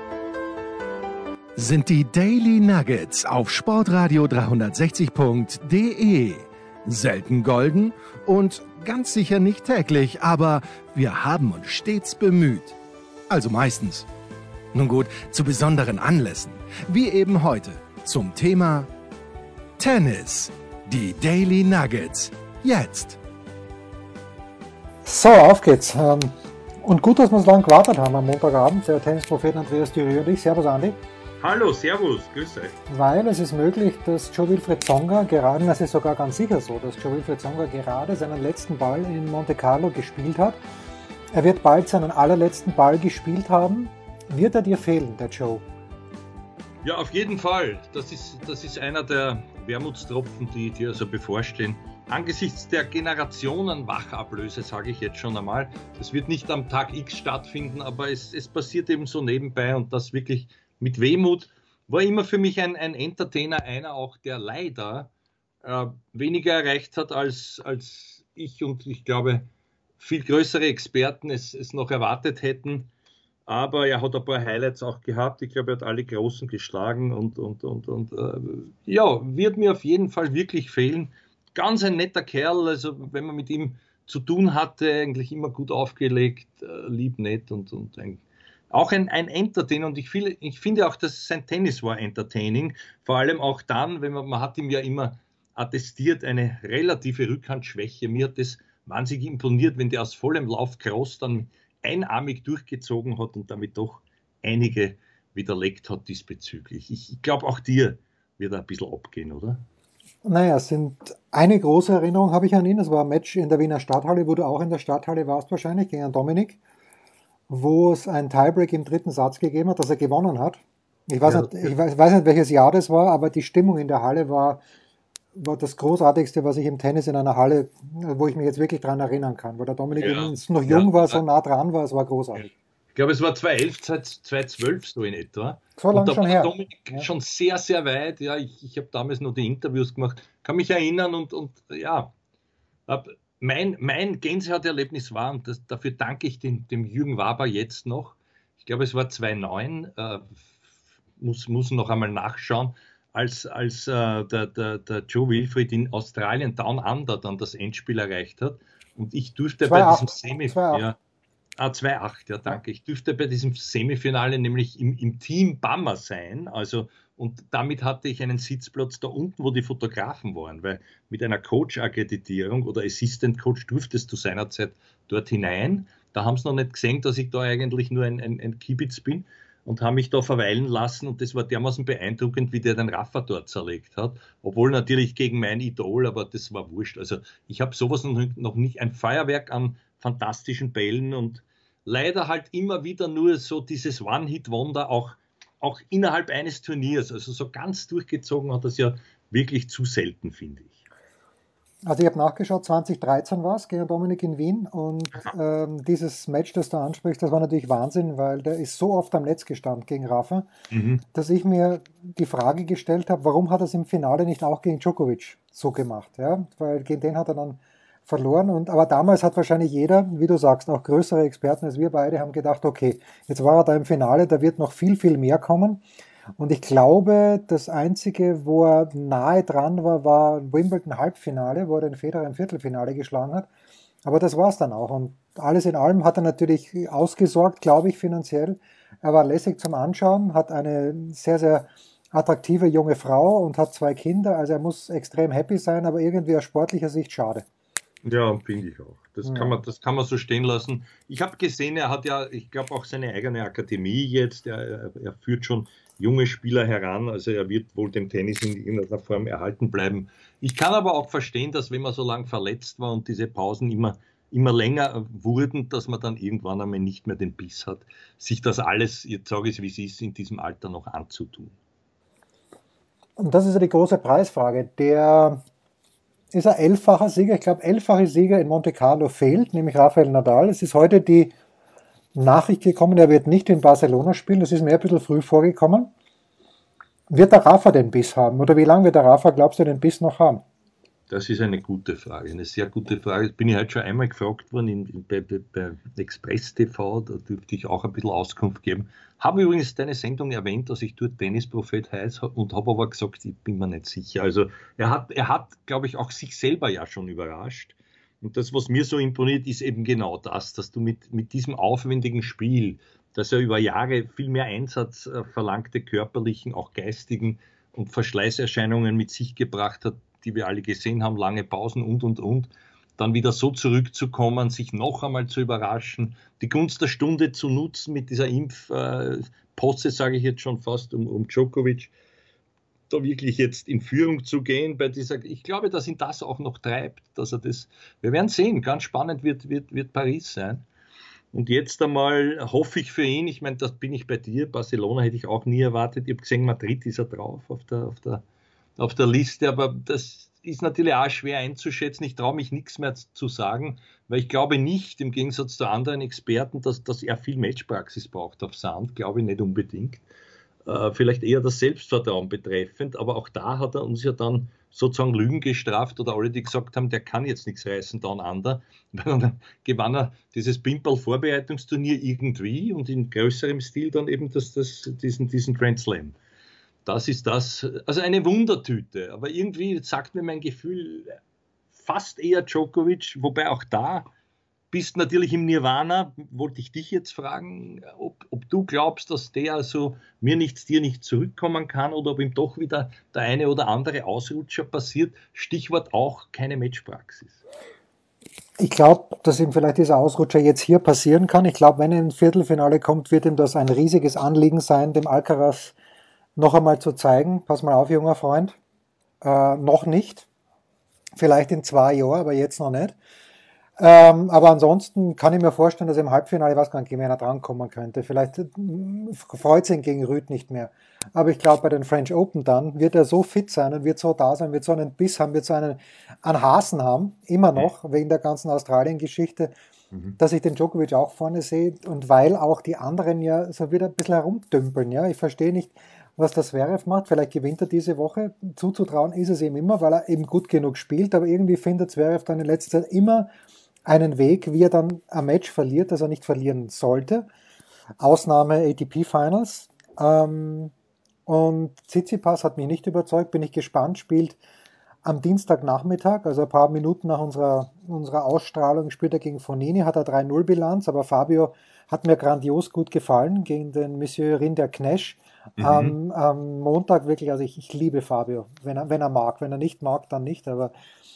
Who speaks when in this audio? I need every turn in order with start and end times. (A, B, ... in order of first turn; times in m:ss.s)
0:01.6-0:12.8 A
0:13.3-0:14.1 A
0:14.7-0:18.9 A
0:19.8-0:23.2 A
0:25.0-0:31.0 B
0:31.4-0:32.8 C
0:32.9-0:40.6 B
0:41.3-0:45.6 B
0:46.8-1:05.1 C
1:05.6-1:09.5 C
1:10.0-1:12.9 C
1:13.5-1:49.6 C
1:50.2-1:56.6 B
1:57.5-2:04.6 B
2:01.2-2:01.7 C
2:05.4-2:12.5 B
2:10.0-2:11.2 C
2:12.4-2:22.1 C
2:15.8-2:17.1 B
2:22.9-2:30.5 C
2:31.2-2:41.0 C
2:39.6-2:40.9 B
2:41.6-3:20.8 C
3:21.8-3:30.5 B
3:30.7-3:31.0 C
3:31.1-3:45.8 B
3:46.4-3:53.5 B
3:54.0-4:07.4 B
4:08.0-4:31.6 C
4:09.2-4:09.6 B
4:33.2-4:35.4 B
4:36.3-4:41.3 B
4:42.1-4:45.9 B
4:47.1-4:50.4 B
4:51.1-5:31.9 C
5:32.9-5:40.6 C
5:41.3-5:48.2 C
5:48.8-6:00.0 C
6:00.6-6:16.2 C
6:16.8-6:21.2 C
6:21.7-6:24.1 C
6:24.7-6:37.4 C
6:38.6-6:45.8 B
6:46.4-6:48.6 B
6:49.2-6:50.3 B
6:51.2-6:53.0 B
6:53.8-7:09.5 B
7:10.2-7:23.3 B
7:23.9-7:27.3 B
7:28.0-7:30.7 B
7:31.3-7:34.4 B
7:35.0-7:50.7 B
7:45.6-7:46.0 C